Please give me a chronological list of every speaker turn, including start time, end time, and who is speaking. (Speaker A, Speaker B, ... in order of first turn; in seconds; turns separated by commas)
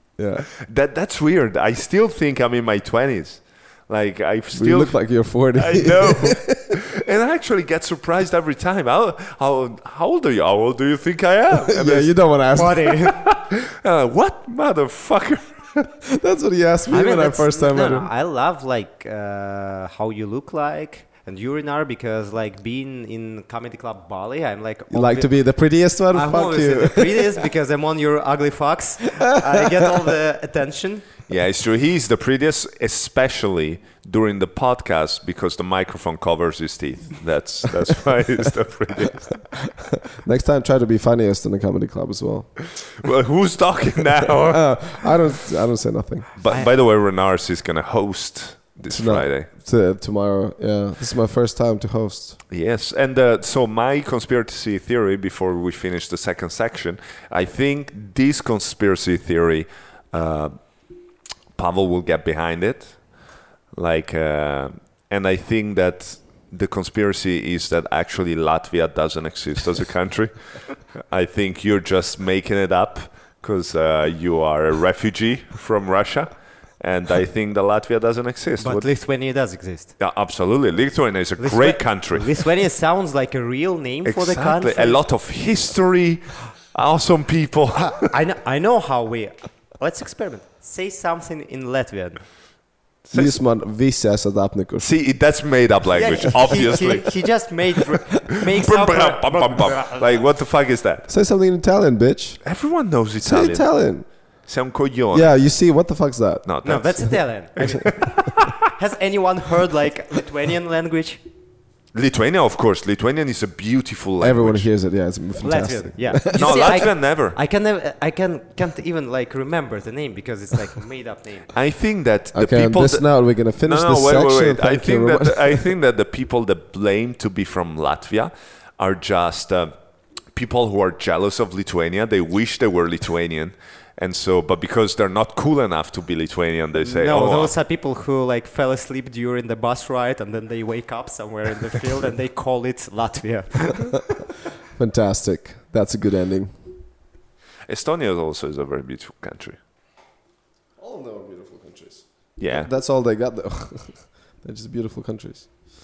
Speaker A: 0.2-0.5, Speaker B: 0.7-12.2, Speaker A: 4.5-6.6, Speaker A: 11.7-13.0, Speaker C: 12.5-13.2, Speaker B: 13.2-15.9, Speaker A: 16.1-18.1, Speaker C: 16.9-25.4, Speaker A: 24.9-27.3, Speaker C: 26.1-31.1, Speaker B: 31.3-39.6, Speaker A: 40.1-42.6, Speaker B: 43.0-45.5, Speaker A: 44.3-46.3, Speaker B: 46.4-49.5, Speaker A: 48.9-52.4, Speaker B: 52.5-60.8, Speaker B: 61.5-78.9, Speaker C: 78.6-79.9, Speaker B: 80.0-82.4, Speaker C: 81.4-85.0, Speaker B: 84.0-88.1, Speaker C: 87.8-92.2, Speaker B: 93.0-93.4, Speaker A: 93.1-94.9, Speaker B: 94.8-97.2, Speaker C: 95.9-100.3, Speaker B: 98.5-101.1, Speaker A: 101.1-102.4, Speaker B: 102.4-103.8, Speaker A: 103.2-104.1, Speaker B: 104.5-105.3, Speaker A: 105.1-106.5, Speaker B: 106.5-108.6, Speaker C: 106.6-111.2, Speaker B: 111.9-114.7, Speaker A: 114.2-116.6, Speaker C: 115.4-121.5, Speaker B: 116.3-117.4, Speaker B: 121.5-129.7, Speaker A: 122.3-125.7, Speaker B: 130.3-137.5, Speaker C: 136.8-144.1, Speaker A: 144.7-146.5, Speaker B: 147.7-149.6, Speaker A: 150.8-155.5, Speaker B: 152.4-152.7